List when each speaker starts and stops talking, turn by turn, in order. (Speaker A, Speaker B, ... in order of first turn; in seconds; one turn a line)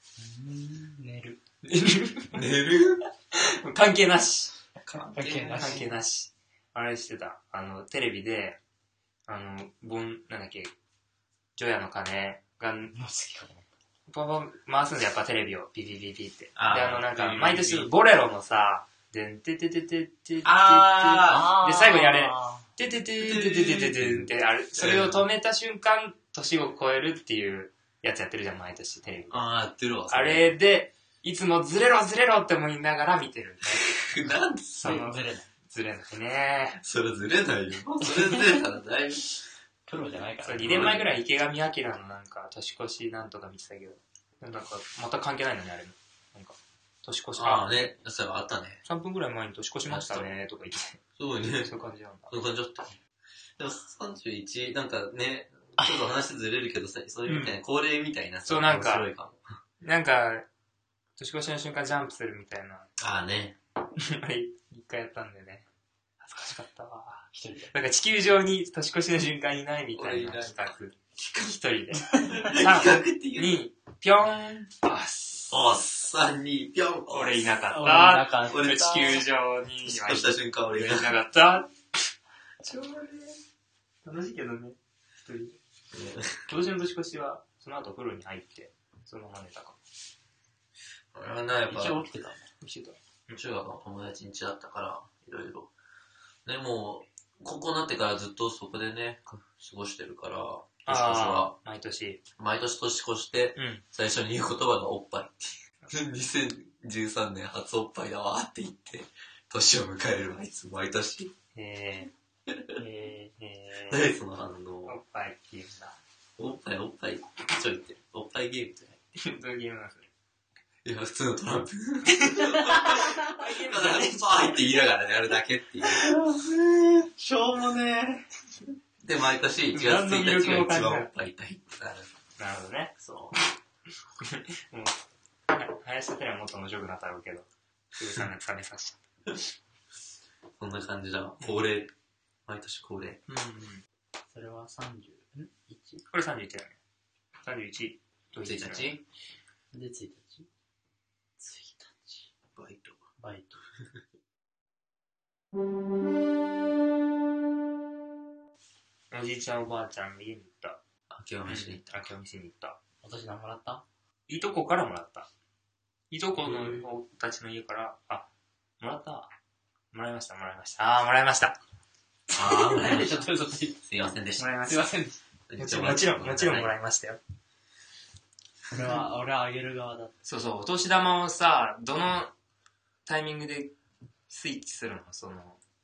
Speaker A: 0.2-1.4
Speaker B: 1.6-2.5
Speaker C: 2.3-3.0
Speaker B: 3.3-4.6
Speaker C: 4.8-5.9
Speaker A: 5.1-5.9
Speaker B: 5.5-8.6
Speaker B: 9.3-10.7
Speaker B: 11.6-12.9
Speaker A: 12.9-13.7
Speaker B: 14.1-29.4
Speaker C: 16.6-17.9
Speaker C: 20.4-21.5
Speaker A: 21.3-22.7
Speaker C: 23.2-25.2
Speaker C: 29.3-30.6
Speaker B: 30.1-34.1
Speaker C: 33.7-35.0
Speaker B: 34.8-36.8
Speaker A: 34.8-35.5
Speaker C: 36.8-39.4
Speaker A: 39.9-41.0
Speaker B: 40.4-47.9
Speaker C: 40.6-41.1
Speaker C: 47.4-48.8
Speaker B: 48.8-51.0
Speaker C: 49.9-50.3
Speaker C: 51.2-51.7
Speaker B: 51.6-52.3
Speaker C: 52.3-53.0
Speaker C: 53.6-59.5
Speaker B: 57.3-57.6
Speaker B: 58.5-59.1
Speaker B: 59.8-60.5
Speaker B: 61.2-62.9
Speaker C: 63.0-63.6
Speaker B: 64.0-65.7
Speaker B: 66.2-75.6
Speaker A: 67.3-67.7
Speaker C: 69.9-70.7
Speaker C: 72.1-73.6
Speaker C: 75.5-77.5
Speaker B: 77.1-81.7
Speaker A: 77.7-79.2
Speaker C: 78.5-79.2
Speaker C: 79.8-81.2
Speaker B: 82.6-83.4
Speaker B: 84.0-85.6
Speaker C: 85.9-86.5
Speaker B: 86.5-89.8
Speaker C: 91.1-92.1
Speaker A: 91.7-92.5
Speaker B: 92.6-93.4
Speaker C: 93.3-95.7
Speaker C: 96.4-101.5
Speaker B: 100.8-102.2
Speaker C: 102.4-111.3
Speaker B: 103.5-103.8
Speaker B: 111.5-112.1
Speaker C: 112.5-112.8
Speaker A: 112.8-113.3
Speaker B: 113.4-114.1
Speaker C: 113.9-115.0
Speaker B: 114.9-116.0
Speaker C: 116.4-119.0
Speaker B: 119.2-120.1
Speaker C: 120.8-126.1
Speaker B: 122.1-124.6
Speaker A: 125.8-126.5
Speaker A: 127.1-128.2
Speaker C: 129.0-132.1
Speaker B: 129.7-131.1
Speaker B: 132.4-133.1
Speaker B: 134.2-135.0
Speaker B: 135.5-139.0
Speaker C: 140.6-141.9
Speaker C: 142.4-143.2
Speaker B: 143.3-143.8
Speaker A: 144.3-146.0
Speaker B: 146.1-146.8
Speaker B: 147.4-149.0
Speaker C: 148.4-149.0
Speaker A: 149.7-150.5
Speaker A: 151.4-152.3
Speaker C: 152.5-153.0
Speaker A: 153.2-153.6
Speaker B: 159.1-160.8
Speaker C: 161.1-162.0
Speaker B: 161.4-162.8
Speaker A: 163.0-163.8
Speaker B: 164.3-165.3
Speaker B: 166.1-168.3
Speaker C: 166.4-166.9
Speaker B: 168.8-169.3
Speaker B: 169.9-171.6
Speaker A: 172.3-173.8
Speaker C: 172.3-173.3
Speaker C: 173.8-174.5
Speaker B: 174.4-174.9
Speaker A: 174.6-175.2
Speaker C: 175.5-176.7
Speaker B: 175.6-177.2
Speaker A: 178.7-180.1
Speaker B: 180.2-182.3
Speaker B: 183.1-183.7
Speaker B: 184.3-185.6